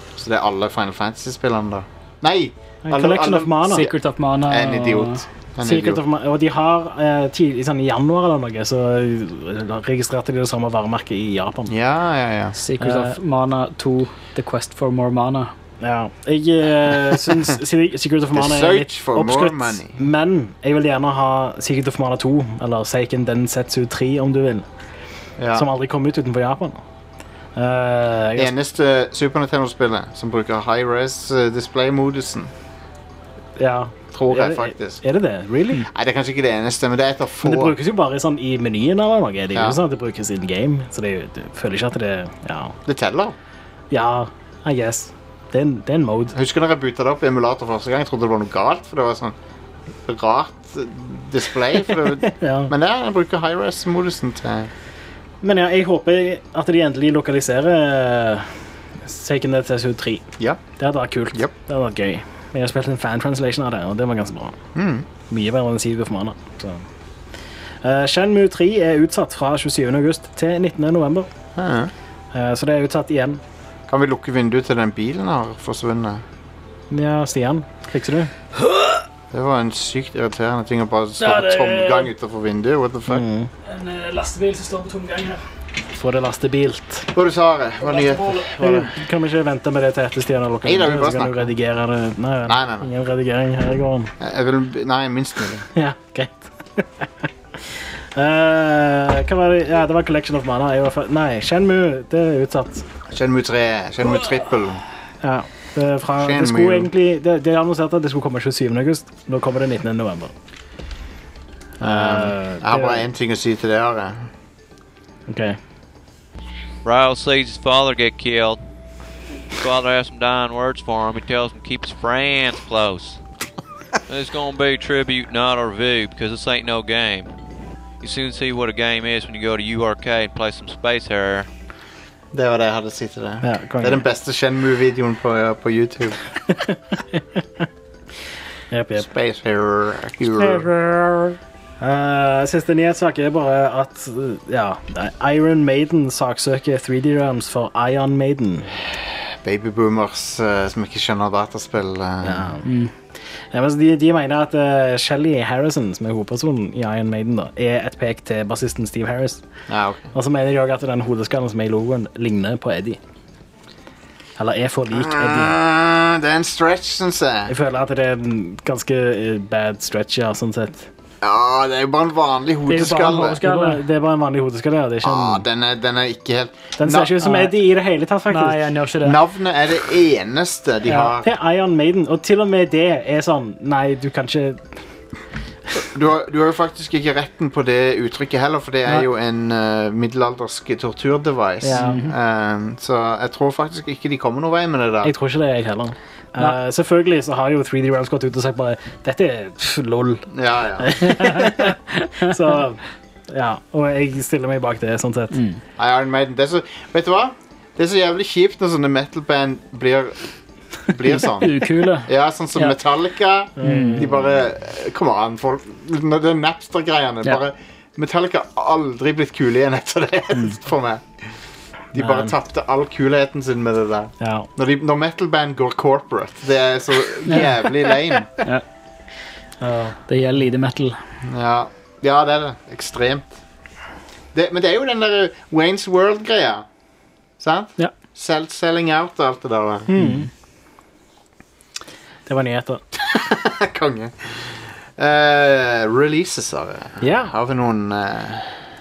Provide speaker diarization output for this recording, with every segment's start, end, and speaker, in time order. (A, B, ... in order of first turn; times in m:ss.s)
0:00.2-0:04.0 A
0:02.8-0:03.9 B
0:03.7-0:05.2 C
0:04.5-0:06.0 A
0:05.6-0:11.7 B
0:11.7-0:12.6 A
0:12.6-0:15.5 C
0:12.8-0:13.2 B
0:15.8-0:24.7 B
0:18.3-0:20.0 A
0:25.4-0:25.7 A
0:25.5-0:26.8 B
0:27.6-0:28.5 B
0:28.4-0:32.5 A
0:33.6-0:35.8 B
0:34.1-0:35.0 A
0:35.9-0:37.8 A
0:37.4-0:42.8 B
0:39.5-0:39.8 A
0:42.9-0:43.4 A
0:43.9-0:46.4 B
0:46.3-0:49.4 A
0:50.0-0:54.7 A
0:52.3-0:52.7 B
0:55.4-0:58.5 B
0:59.0-1:04.6 B
1:04.8-1:05.1 A
1:05.3-1:06.8 B
1:07.8-1:11.3 B
1:11.6-1:11.9 A
1:12.3-1:13.4 B
1:13.9-1:16.2 A
1:16.9-1:18.3 B
1:19.3-1:23.2 A
1:21.2-1:22.1 C
1:23.1-1:23.5 B
1:23.6-1:25.4 C
1:26.0-1:27.1 B
1:27.1-1:28.9 A
1:27.8-1:28.5 C
1:28.6-1:34.1 B
1:30.6-1:31.5 A
1:32.5-1:32.9 A
1:34.2-1:35.7 A
1:35.8-1:37.1 B
1:38.2-1:42.9 B
1:43.1-1:44.8 A
1:45.2-1:50.3 B
1:46.2-1:46.9 A
1:51.8-1:54.3 A
1:51.8-1:53.0 B
1:55.3-1:55.6 B
1:56.8-1:58.6 D
1:59.6-2:03.2 D
2:04.1-2:07.3 D
2:08.0-2:11.5 D
2:12.3-2:16.2 A
2:13.4-2:14.0 B
2:16.5-2:17.6 B
2:18.7-2:19.1 B
2:19.0-2:20.7 A
2:20.3-2:28.7 B
2:28.9-2:32.5 A
2:32.2-2:32.7 B
2:32.6-2:32.9 C
2:33.5-2:39.4 B
2:39.7-2:40.1 A
2:40.1-2:43.0 B
2:44.4-2:45.6 B
2:44.9-2:47.5 A
2:47.5-2:50.9 B
2:51.2-2:53.4 A
2:52.7-2:53.8 C
2:53.4-2:55.4 B
2:55.0-2:57.2 A
2:56.8-2:58.6 B
2:57.3-2:57.5 C
2:58.3-2:59.2 C
2:59.0-3:01.3 A
3:00.9-3:01.1 C
3:01.2-3:04.8 B
3:05.8-3:15.1 A
3:11.6-3:12.0 B
3:11.7-3:12.1 C
3:15.0-3:20.3 B
3:20.3-3:21.0 A
3:20.8-3:25.4 B
3:21.2-3:21.8 C
3:25.3-3:25.6 C
3:25.8-3:30.2 A
3:30.9-3:41.1 A
3:31.1-3:32.8 C
3:33.6-3:34.3 B
3:33.6-3:34.1 C
3:41.9-3:48.3 A
3:42.0-3:42.4 B
3:44.2-3:44.5 B
3:47.3-3:47.6 C
3:49.6-3:50.0 B
3:50.1-3:51.0 C
3:51.2-3:53.4 A
3:54.3-3:56.6 A
3:57.4-3:59.9 A
3:59.9-4:00.3 B
4:00.0-4:00.3 C
4:02.3-4:02.8 B
4:03.0-4:08.6 A
4:07.0-4:07.3 B